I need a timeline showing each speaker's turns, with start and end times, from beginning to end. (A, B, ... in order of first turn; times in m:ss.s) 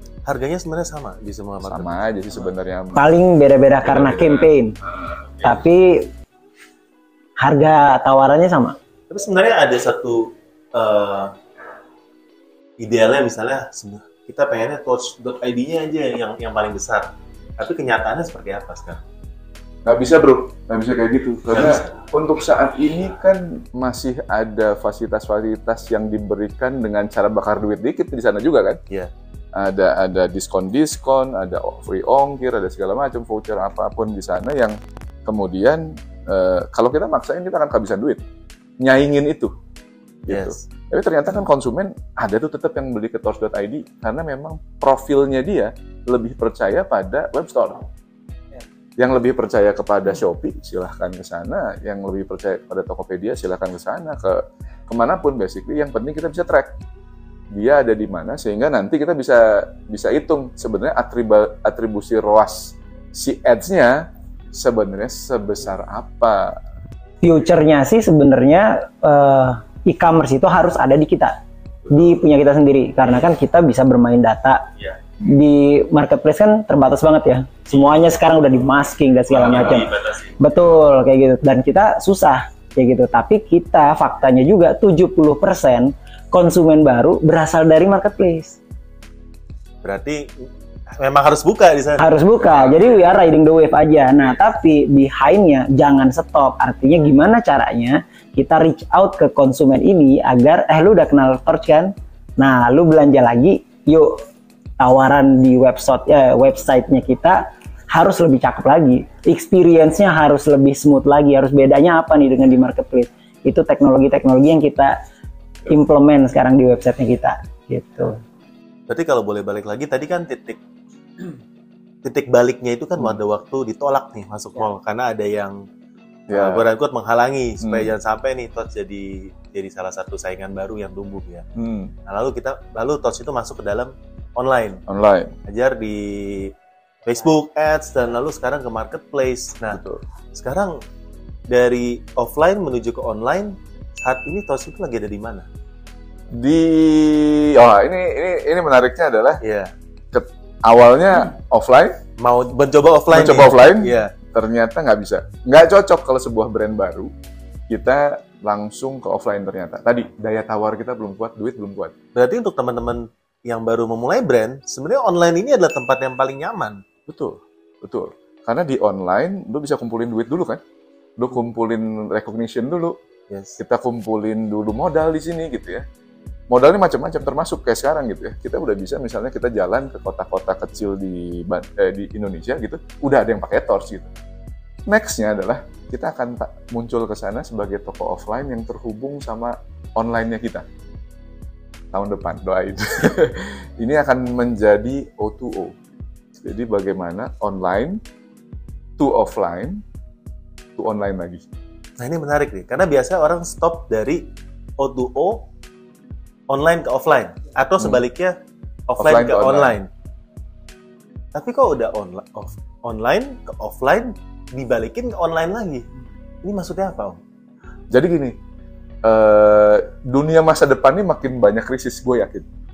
0:00.3-0:02.0 A
0:01.6-0:03.1 B
0:02.9-0:04.8 C
0:03.8-0:04.5 B
0:05.4-0:06.1 C
0:07.4-0:08.8 C
0:09.1-0:11.3 A
0:12.8-0:19.0 A
0:19.8-0:28.8 B
0:21.5-0:21.9 A
0:29.5-0:38.2 B
0:38.8-0:39.5 B
0:40.3-0:47.8 B
0:40.3-0:40.6 A
0:49.0-0:56.7 B
0:57.5-1:03.9 B
1:04.5-1:06.6 B
1:07.2-1:11.4 C
1:11.9-1:14.7 C
1:15.3-1:28.6 C
1:19.3-1:20.3 A
1:29.8-1:30.3 A
1:31.0-1:32.1 A
1:32.0-1:44.1 C
1:44.8-1:55.0 C
1:55.7-1:58.2 C
1:58.9-2:00.6 A
2:02.0-2:05.6 A
2:06.3-2:06.7 B
2:06.3-2:11.4 A
2:07.6-2:07.9 B
2:11.6-2:11.9 B
2:12.1-2:14.8 A
2:14.9-2:15.3 B
2:15.5-2:16.5 A
2:17.0-2:19.8 A
2:19.7-2:20.0 B
2:20.3-2:20.8 A
2:21.5-2:25.4 A
2:26.4-2:29.4 B
2:29.4-2:29.7 A
2:30.1-2:32.0 B
2:32.2-2:34.1 A
2:33.1-2:37.1 B
2:37.7-2:41.9 B
2:42.1-2:46.8 A
2:47.1-2:50.6 B
2:51.2-2:52.9 B
2:53.3-2:53.6 A
2:53.6-2:55.8 B
2:56.5-3:04.1 B
3:04.9-3:10.6 B
3:11.9-3:15.7 B
3:16.4-3:18.0 B
3:19.0-3:19.8 B
3:20.8-3:21.4 B
3:22.0-3:24.3 A
3:24.8-3:25.4 A
3:26.5-3:28.3 A
3:28.9-3:29.9 A
3:29.0-3:29.8 B
3:31.3-3:35.8 A
3:36.4-3:37.2 A
3:37.9-3:38.4 B
3:39.0-3:42.4 B